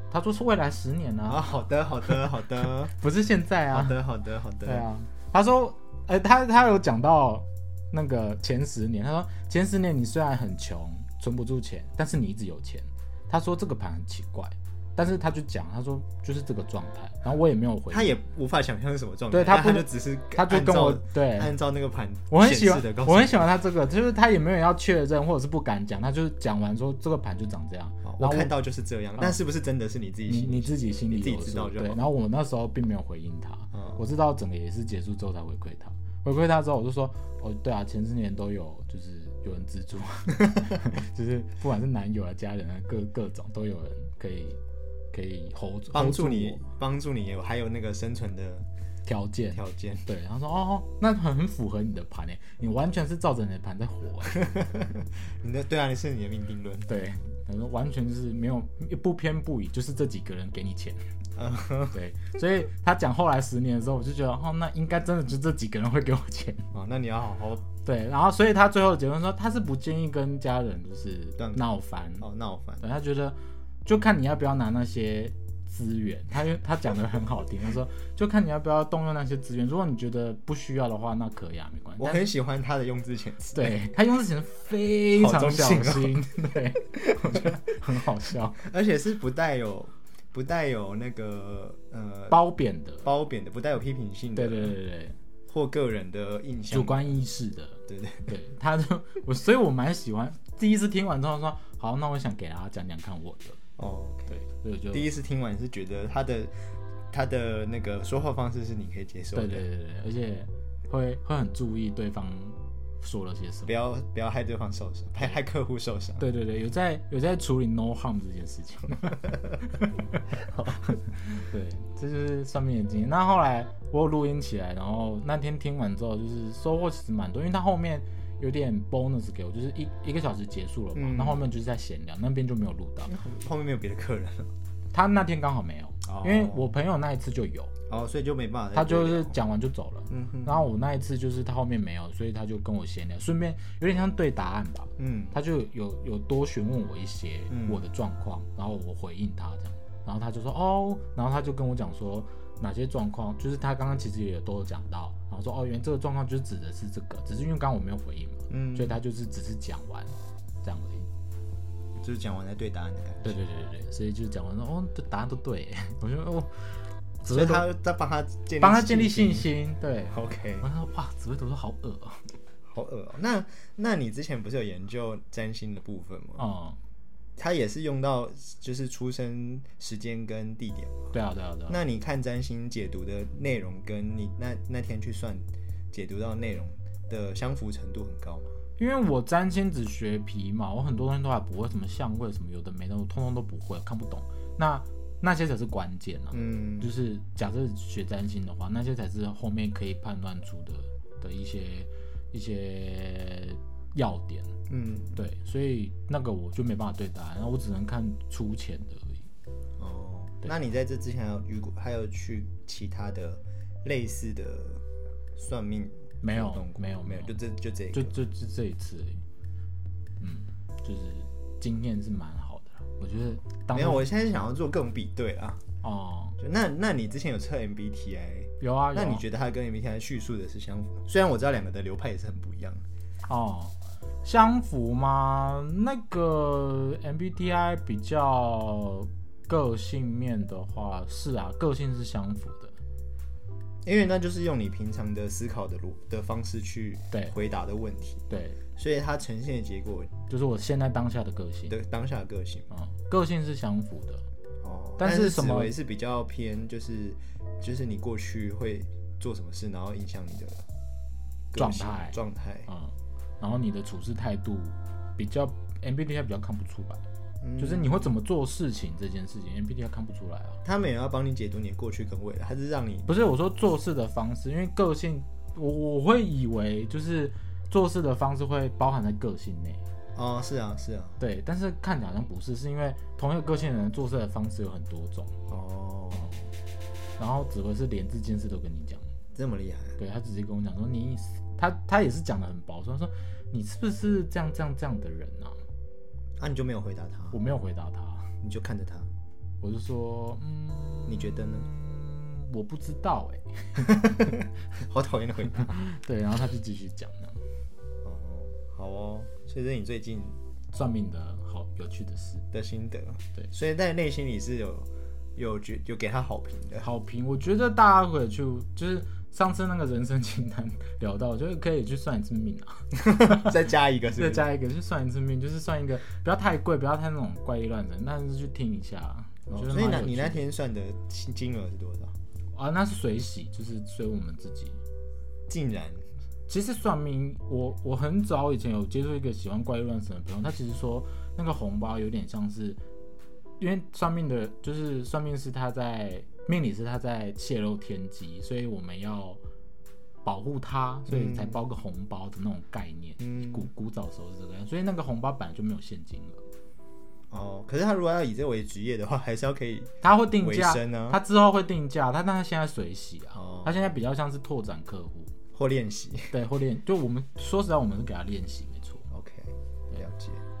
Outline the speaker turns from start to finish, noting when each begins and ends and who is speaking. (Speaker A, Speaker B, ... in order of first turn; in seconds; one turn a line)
Speaker A: 0.1-1.4
Speaker B: 1.2-2.9
Speaker A: 2.9-4.0
Speaker B: 3.7-4.9
Speaker A: 4.6-18.1
Speaker B: 17.9-23.5
Speaker A: 19.3-21.5
Speaker A: 22.3-28.5
Speaker B: 28.0-32.0
Speaker A: 30.3-44.6
Speaker B: 33.7-34.0
Speaker A: 45.1-46.7
Speaker B: 45.9-48.7
Speaker A: 49.0-54.6
Speaker B: 49.5-50.0
Speaker B: 54.3-56.9
Speaker A: 56.9-61.0
Speaker B: 61.4-62.0
Speaker A: 61.9-66.7
Speaker B: 66.7-67.6
Speaker A: 67.8-72.2
Speaker B: 71.4-71.7
Speaker B: 72.2-72.8
Speaker A: 72.8-82.2
Speaker B: 82.0-83.8
Speaker A: 83.5-88.6
Speaker B: 85.1-86.2
Speaker B: 87.0-87.6
Speaker B: 88.6-92.4
Speaker A: 92.3-93.1
Speaker B: 93.0-94.8
Speaker A: 94.3-95.2
Speaker B: 95.5-97.1
Speaker A: 96.7-103.6
Speaker B: 97.9-98.3
Speaker B: 103.8-104.3
Speaker A: 104.3-105.1
Speaker B: 104.9-106.5
Speaker B: 107.1-109.6
Speaker A: 109.3-113.7
Speaker B: 113.7-116.2
Speaker A: 116.2-120.2
Speaker B: 120.4-120.9
Speaker A: 121.0-133.1
Speaker B: 130.9-131.4
Speaker B: 133.1-134.5
Speaker A: 134.9-137.7
Speaker B: 136.0-136.7
Speaker B: 137.9-139.4
Speaker A: 138.7-161.1
Speaker B: 140.1-140.7
Speaker B: 145.0-145.3
Speaker B: 147.5-147.8
Speaker B: 158.5-159.0
Speaker B: 162.0-163.4
Speaker A: 163.2-167.7
Speaker B: 167.3-169.5
Speaker A: 168.6-172.3
Speaker B: 170.1-170.7
Speaker B: 172.7-176.4
Speaker A: 176.4-176.8
Speaker B: 177.4-181.1
Speaker A: 181.1-181.8
Speaker B: 181.7-188.6
Speaker A: 188.8-204.5
Speaker B: 196.3-196.9
Speaker B: 204.7-205.2
Speaker A: 205.2-209.2
Speaker B: 209.8-214.8
Speaker B: 215.3-218.2
Speaker A: 216.2-217.3
Speaker A: 217.9-219.2
Speaker A: 220.2-224.1
Speaker B: 223.7-225.6
Speaker A: 225.8-226.4
Speaker B: 226.4-232.8
Speaker A: 228.6-229.2
Speaker A: 233.3-242.7
Speaker B: 243.8-250.1
Speaker A: 248.3-248.6
Speaker A: 250.3-251.8
Speaker B: 251.7-252.7
Speaker A: 252.7-254.2
Speaker B: 254.6-260.6
Speaker A: 255.0-255.7
Speaker B: 261.5-262.7
Speaker A: 261.6-267.0
Speaker B: 267.4-268.1
Speaker A: 267.6-270.6
Speaker B: 270.6-273.1
Speaker A: 273.1-279.8
Speaker B: 280.1-281.2
Speaker A: 281.2-285.3
Speaker B: 285.5-286.4
Speaker A: 287.2-289.1
Speaker B: 289.3-290.0
Speaker A: 290.0-295.6
Speaker B: 296.4-297.4
Speaker A: 297.3-298.3
Speaker B: 298.4-299.1
Speaker A: 299.6-304.4
Speaker B: 301.1-301.7
Speaker B: 303.8-305.8
Speaker A: 305.5-307.4
Speaker B: 308.0-310.4
Speaker A: 310.7-312.4
Speaker B: 312.5-316.9
Speaker A: 316.8-323.5
Speaker B: 323.0-324.5
Speaker A: 324.1-330.4
Speaker B: 329.5-332.1
Speaker A: 332.5-334.8
Speaker B: 335.5-336.0
Speaker A: 336.5-342.8
Speaker A: 343.6-349.4
Speaker A: 350.2-356.4
Speaker B: 351.1-351.6
Speaker B: 353.2-353.7
Speaker B: 357.3-361.2
Speaker A: 360.0-365.3
Speaker B: 363.3-363.9
Speaker B: 365.5-366.3
Speaker A: 366.3-369.1
Speaker B: 369.1-370.4